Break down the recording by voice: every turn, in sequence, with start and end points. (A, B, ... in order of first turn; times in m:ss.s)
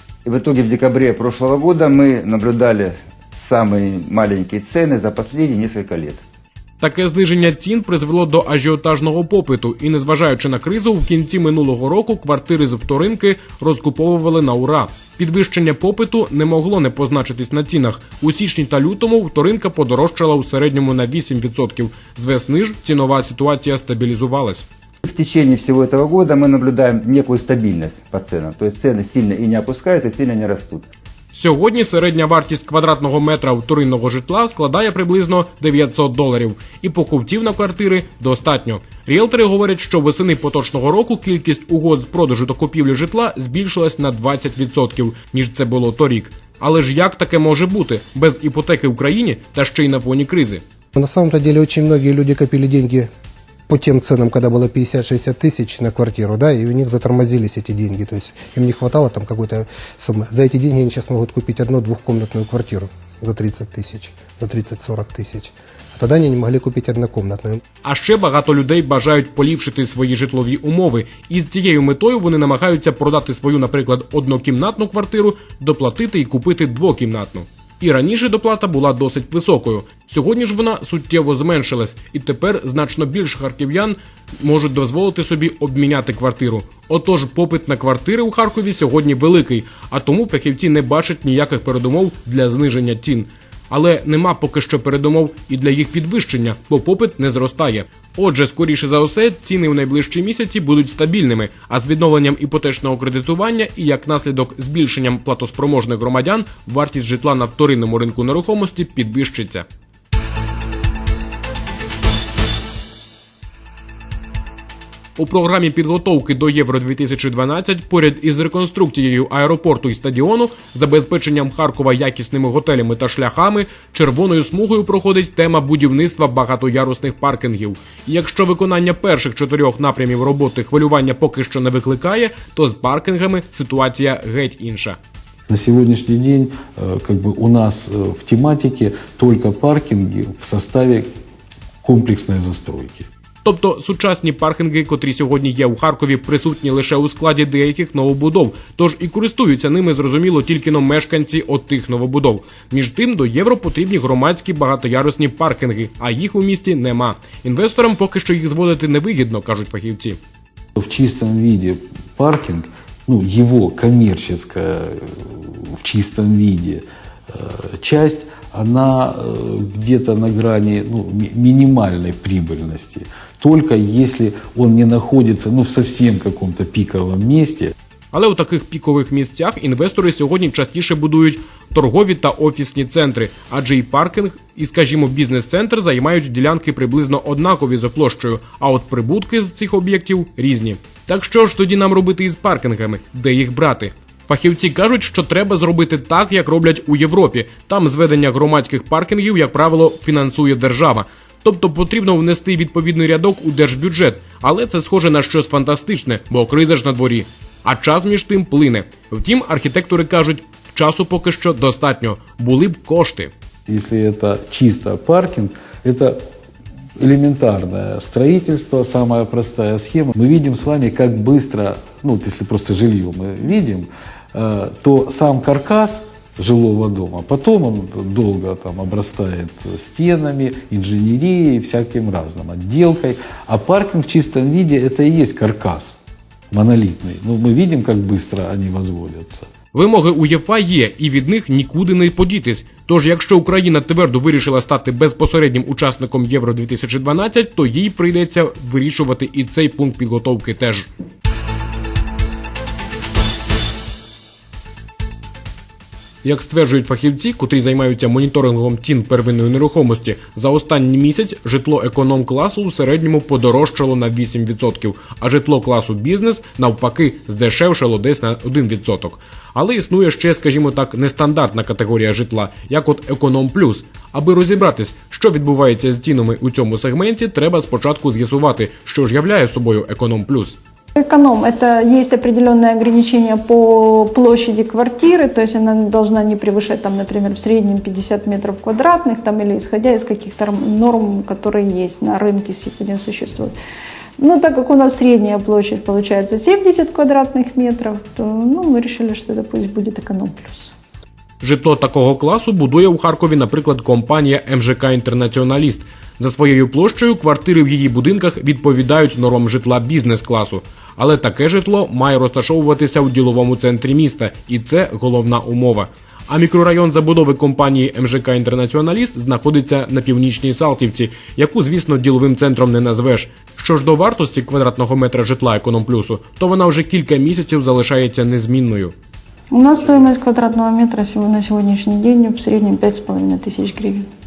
0:00.2-0:06.2 A
0:06.8-0:24.6 B
0:25.0-0:30.9 A
0:31.3-0:50.6 B
0:50.9-0:53.1 C
0:53.7-1:07.6 C
1:07.8-1:49.6 B
1:55.2-2:15.0 B
2:15.5-2:21.1 D
2:21.8-2:23.1 D
2:23.4-2:40.2 B
2:40.8-2:57.7 D
2:58.1-3:33.3 B
3:33.7-3:36.2 D
3:37.0-3:56.0 D
3:56.5-3:59.5 D
3:59.7-4:10.9 B
4:16.2-4:40.6 B
4:41.0-4:53.5 E
4:54.2-5:00.7 E
5:01.4-5:28.9 B
5:29.5-5:34.1 E